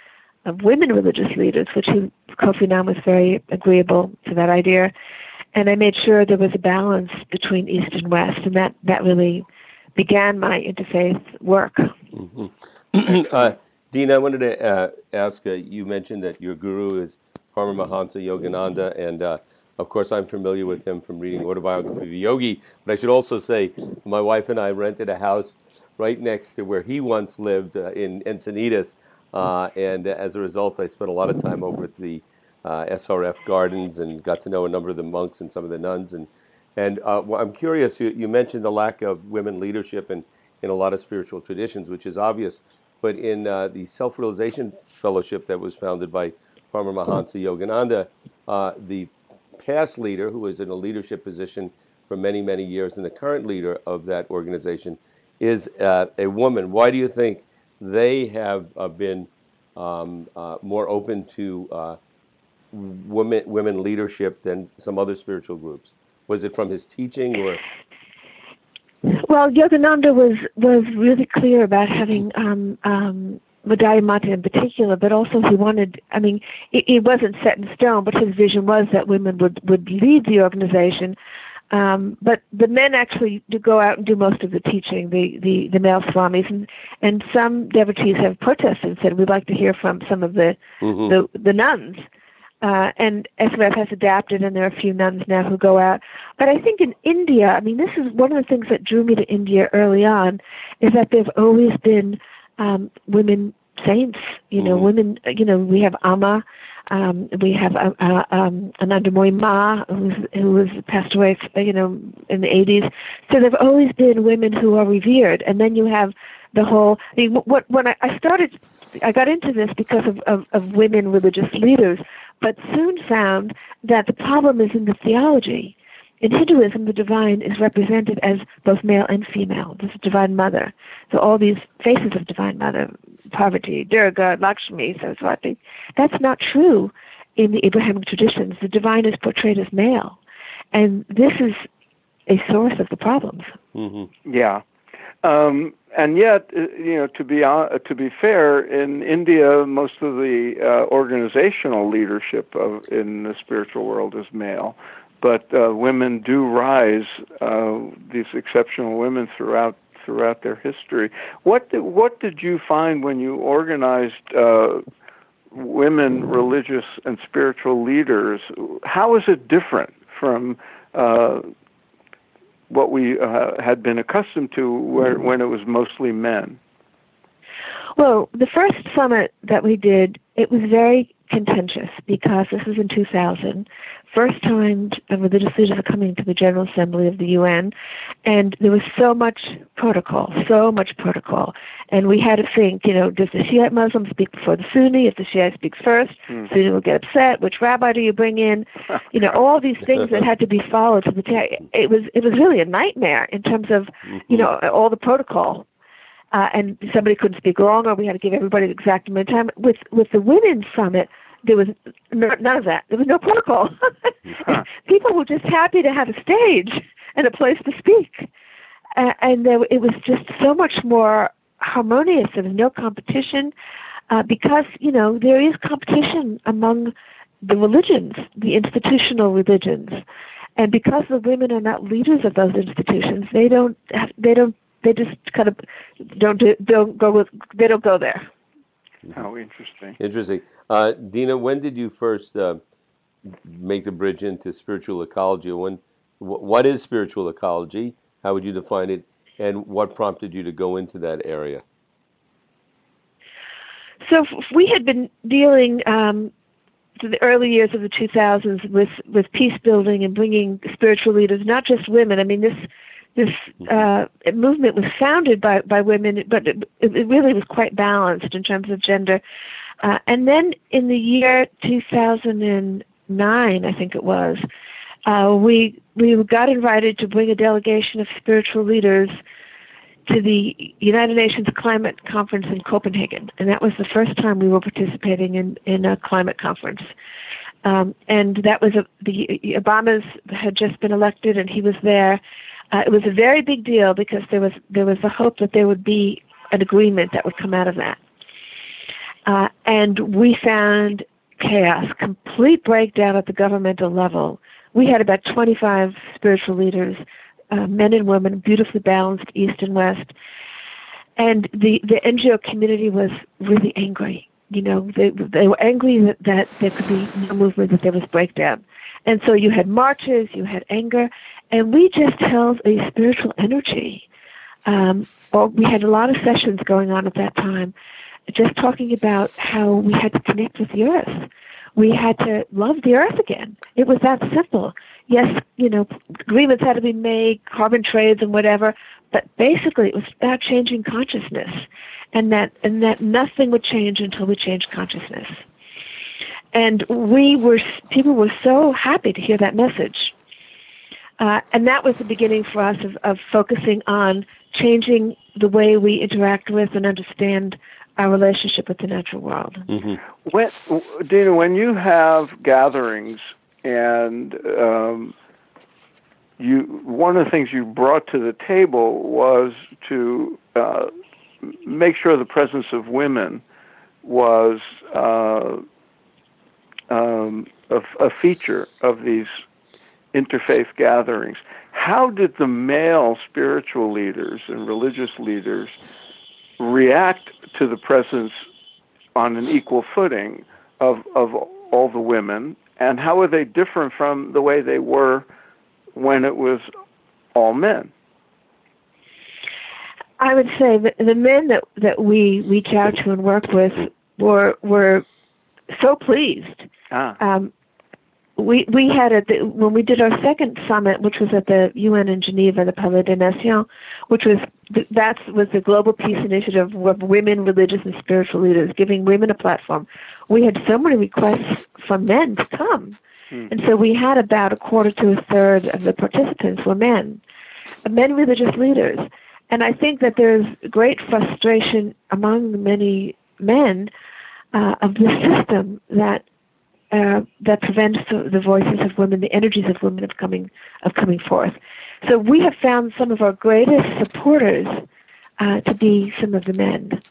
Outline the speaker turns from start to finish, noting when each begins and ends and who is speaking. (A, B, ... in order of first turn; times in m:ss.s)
0:00.4-0:04.9 A
0:05.5-0:09.4 A
0:10.0-0:12.0 A
0:12.1-1:02.0 B
1:02.7-1:07.6 B
1:09.0-1:21.2 A
1:21.7-1:32.0 A
1:30.8-1:31.1 B
1:32.6-2:20.2 A
2:20.7-2:21.7 A
2:22.3-2:23.5 A
2:23.7-2:24.1 B
2:24.2-2:24.6 C
2:25.2-2:44.8 C
2:45.5-2:51.4 C
2:52.7-2:56.6 C
2:58.0-3:07.7 A
3:08.2-3:25.6 A
3:26.3-3:38.3 A
3:38.9-3:43.5 A
3:44.1-3:50.0 A
3:50.6-3:58.3 A
3:59.1-4:00.0 C
4:00.0-4:02.6 B
4:03.3-4:11.6 B
4:14.0-4:16.3 A
4:17.0-4:29.2 A
4:29.8-4:34.4 A
4:35.0-4:39.1 A
4:40.0-4:46.8 A
4:47.6-4:52.2 A
4:52.7-4:58.0 A
4:59.2-5:10.1 A
5:11.2-5:24.0 A
5:24.6-5:27.7 A
5:28.3-5:45.4 A
5:46.5-5:50.1 A
5:51.2-5:59.7 A
5:59.7-6:00.0 B
6:00.2-6:05.1 C
6:06.4-6:10.9 C
6:11.4-6:13.4 C
6:14.0-6:15.6 C
6:16.9-6:19.3 C
6:20.1-6:25.8 C
6:26.6-6:28.4 C
6:29.1-6:35.2 C
6:35.9-6:36.6 C
6:37.3-6:37.9 C
6:40.2-6:45.0 A
6:45.7-6:46.7 A
6:46.9-6:47.2 C
6:47.2-6:47.5 A
6:48.4-7:03.0 A
7:03.5-7:07.2 A
7:07.8-7:13.9 A
7:14.5-7:16.2 A
7:16.9-7:24.8 A
7:25.4-7:27.0 A